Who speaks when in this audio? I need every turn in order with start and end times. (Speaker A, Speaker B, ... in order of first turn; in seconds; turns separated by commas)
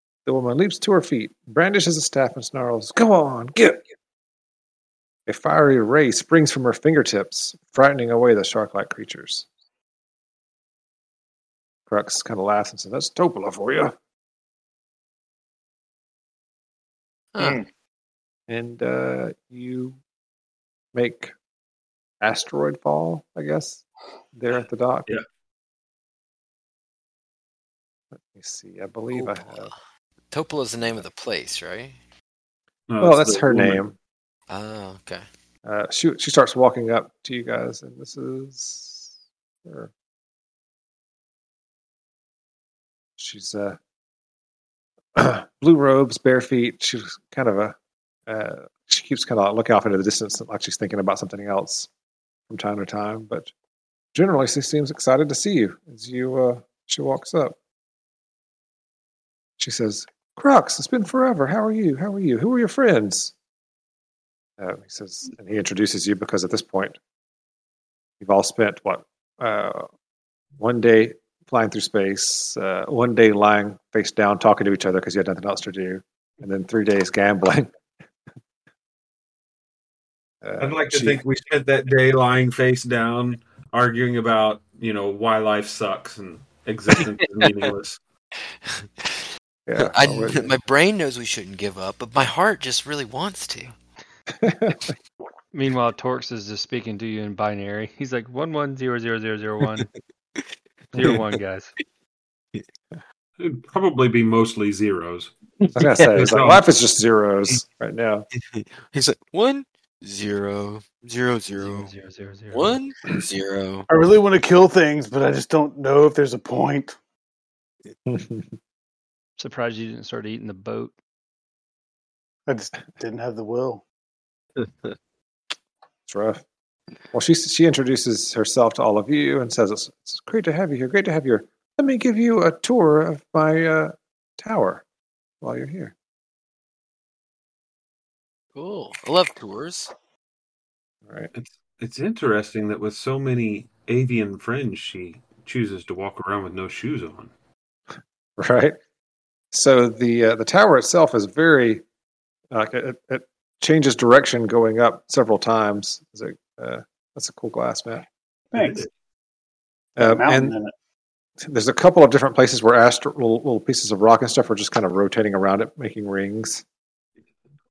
Speaker A: 0.2-3.8, Speaker A: 5.3-9.5, Speaker A: 11.9-13.9, Speaker B: 17.3-17.6, Speaker C: 17.4-17.6, Speaker A: 18.5-20.0, Speaker A: 20.9-21.3, Speaker A: 22.2-23.8, Speaker A: 24.3-25.1, Speaker A: 28.2-29.7, Speaker B: 29.1-29.8, Speaker B: 30.3-32.0, Speaker D: 32.9-33.8, Speaker A: 33.0-33.9, Speaker B: 34.5-35.2, Speaker A: 35.6-39.1, Speaker A: 39.6-39.9, Speaker A: 43.2-43.8, Speaker A: 45.1-51.9, Speaker A: 52.5-53.5, Speaker A: 54.1-57.5, Speaker A: 59.6-63.3, Speaker A: 64.6-67.0, Speaker A: 68.2-69.9, Speaker A: 70.6-77.7, Speaker A: 80.4-81.2, Speaker D: 80.6-88.0, Speaker B: 87.0-87.7, Speaker B: 88.6-93.7, Speaker A: 89.7-90.5, Speaker A: 94.3-94.9, Speaker E: 95.5-99.9, Speaker E: 100.9-101.7, Speaker D: 103.4-105.3, Speaker B: 105.6-106.3, Speaker A: 105.7-108.3, Speaker D: 106.1-106.7, Speaker B: 108.3-111.9, Speaker E: 111.6-112.8, Speaker B: 112.5-113.9, Speaker C: 113.9-117.0, Speaker A: 118.1-118.5, Speaker E: 119.4-120.9, Speaker C: 122.5-123.8, Speaker B: 124.6-124.9, Speaker A: 126.1-126.4, Speaker A: 127.1-134.8, Speaker A: 135.4-135.9, Speaker B: 138.6-139.9, Speaker D: 141.3-147.3, Speaker A: 148.4-148.8, Speaker A: 149.5-151.8, Speaker A: 152.5-158.1, Speaker C: 158.5-158.9, Speaker D: 158.6-158.9, Speaker A: 160.0-160.6, Speaker C: 160.0-160.7, Speaker A: 161.4-166.6